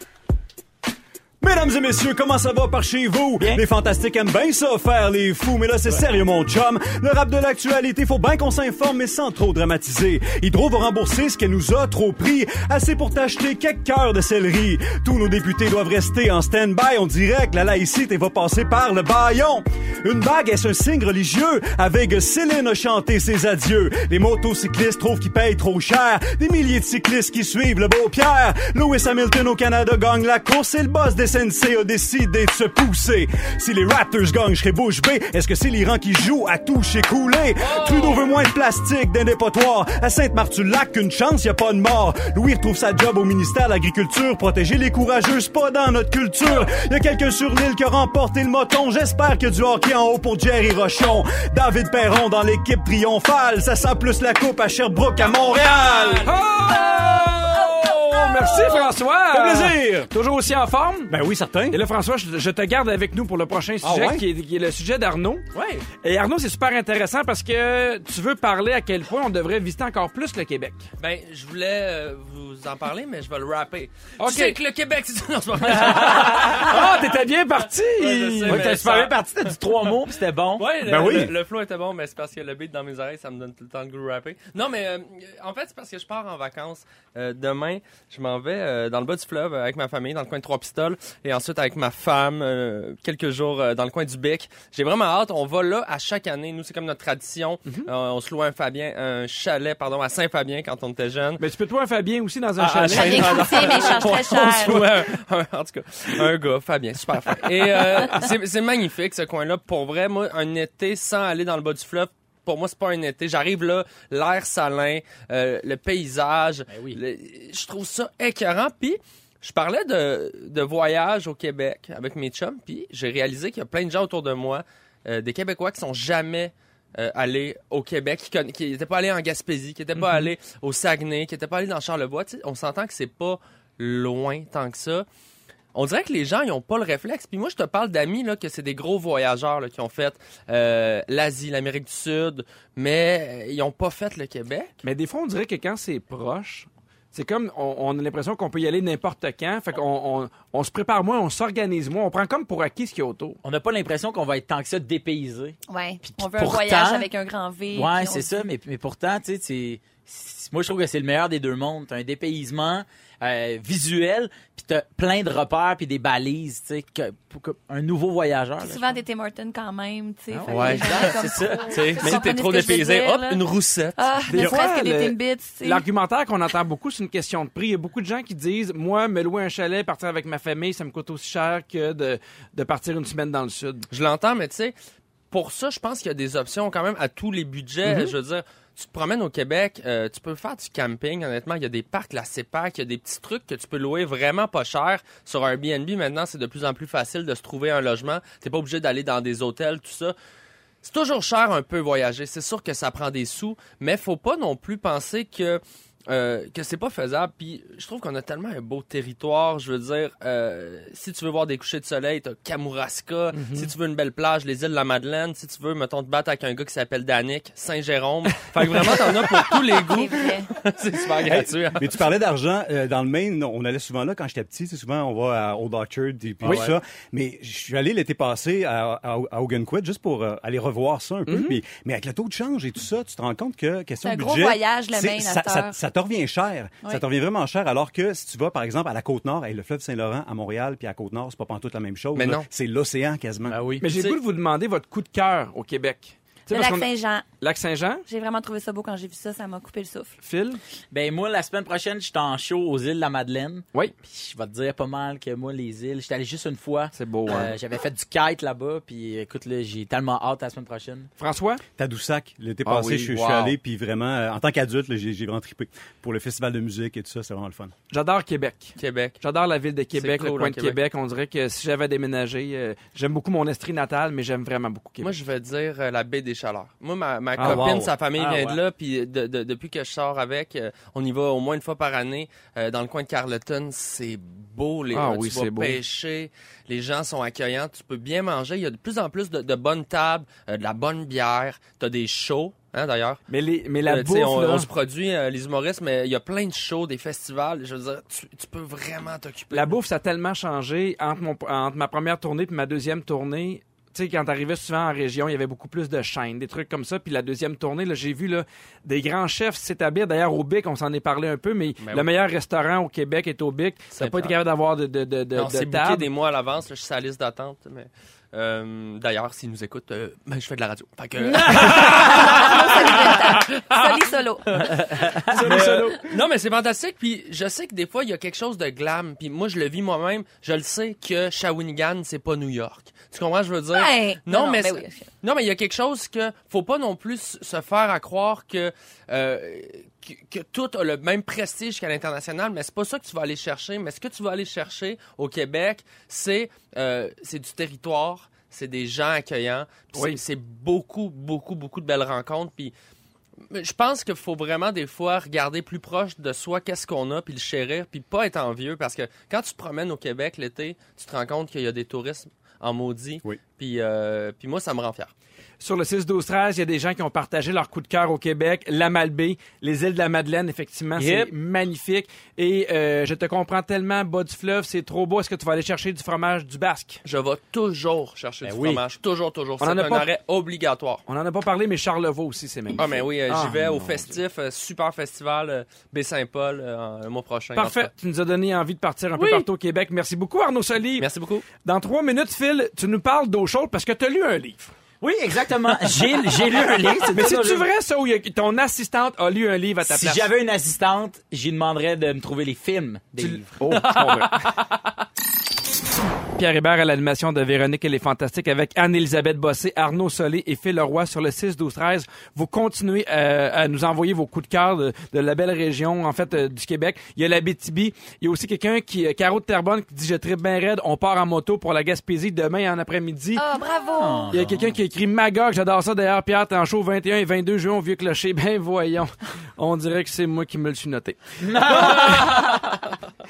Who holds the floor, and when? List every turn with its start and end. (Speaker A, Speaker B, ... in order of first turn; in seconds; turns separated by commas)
Speaker A: 1.4-56.3, Speaker B: 37.6-38.3, Speaker B: 55.3-57.3, Speaker C: 56.2-61.1, Speaker A: 59.3-60.1, Speaker A: 61.1-61.8, Speaker C: 61.7-65.4, Speaker A: 63.8-64.2, Speaker B: 65.5-65.8, Speaker C: 66.0-70.8, Speaker B: 71.0-77.2, Speaker C: 74.2-74.6, Speaker C: 75.7-78.6, Speaker B: 78.0-79.6, Speaker D: 78.5-80.9, Speaker B: 80.6-101.4, Speaker A: 80.8-81.3, Speaker C: 101.4-104.9, Speaker B: 102.6-135.0, Speaker E: 102.8-104.8, Speaker D: 116.7-117.0, Speaker C: 130.0-130.3, Speaker B: 135.7-144.8, Speaker C: 144.8-153.4, Speaker D: 153.4-157.1, Speaker E: 155.7-158.3, Speaker D: 157.7-168.9, Speaker E: 168.6-173.4, Speaker D: 170.3-172.0, Speaker B: 170.5-171.2, Speaker B: 171.7-174.0, Speaker C: 172.0-172.3, Speaker E: 173.9-175.8, Speaker C: 174.3-183.8, Speaker B: 183.9-184.7, Speaker B: 185.3-200.1, Speaker C: 187.8-188.1, Speaker B: 200.8-222.0, Speaker C: 213.3-213.7, Speaker C: 218.6-218.9, Speaker E: 219.8-220.5, Speaker A: 221.1-243.6, Speaker C: 226.4-226.8, Speaker B: 226.4-226.7, Speaker C: 231.2-231.6, Speaker E: 234.0-235.8, Speaker B: 242.1-242.5, Speaker D: 243.4-244.1, Speaker C: 243.8-248.0, Speaker E: 246.5-247.3, Speaker E: 248.1-250.1, Speaker C: 250.2-250.6, Speaker D: 250.9-261.1, Speaker C: 256.9-257.5, Speaker C: 261.2-261.6, Speaker A: 261.8-267.7, Speaker C: 262.6-263.6, Speaker C: 267.9-275.2, Speaker B: 268.8-269.2, Speaker B: 269.9-270.8, Speaker B: 275.0-293.2, Speaker C: 277.4-278.5, Speaker A: 277.4-277.9, Speaker C: 284.9-285.8, Speaker C: 293.3-294.7, Speaker B: 293.8-299.8, Speaker C: 299.5-316.1, Speaker B: 311.8-312.1, Speaker B: 313.9-314.4, Speaker B: 315.3-324.0, Speaker E: 321.3-324.6, Speaker C: 325.2-326.1, Speaker B: 325.3-352.7, Speaker E: 333.7-335.0, Speaker C: 349.9-350.2, Speaker B: 353.5-365.1, Speaker C: 365.6-377.0, Speaker D: 370.9-371.3, Speaker B: 377.0-381.0, Speaker D: 378.4-378.8, Speaker C: 379.6-380.2, Speaker C: 381.1-384.1, Speaker B: 382.8-387.9, Speaker C: 387.6-391.1, Speaker B: 389.1-389.4, Speaker B: 391.0-391.4, Speaker C: 391.6-394.7, Speaker D: 395.0-397.6, Speaker C: 397.1-400.3, Speaker D: 399.8-403.6, Speaker C: 403.2-404.4, Speaker B: 403.6-404.6, Speaker C: 406.4-423.4, Speaker E: 423.4-424.3, Speaker D: 423.9-424.7, Speaker C: 424.3-432.6, Speaker D: 431.4-432.6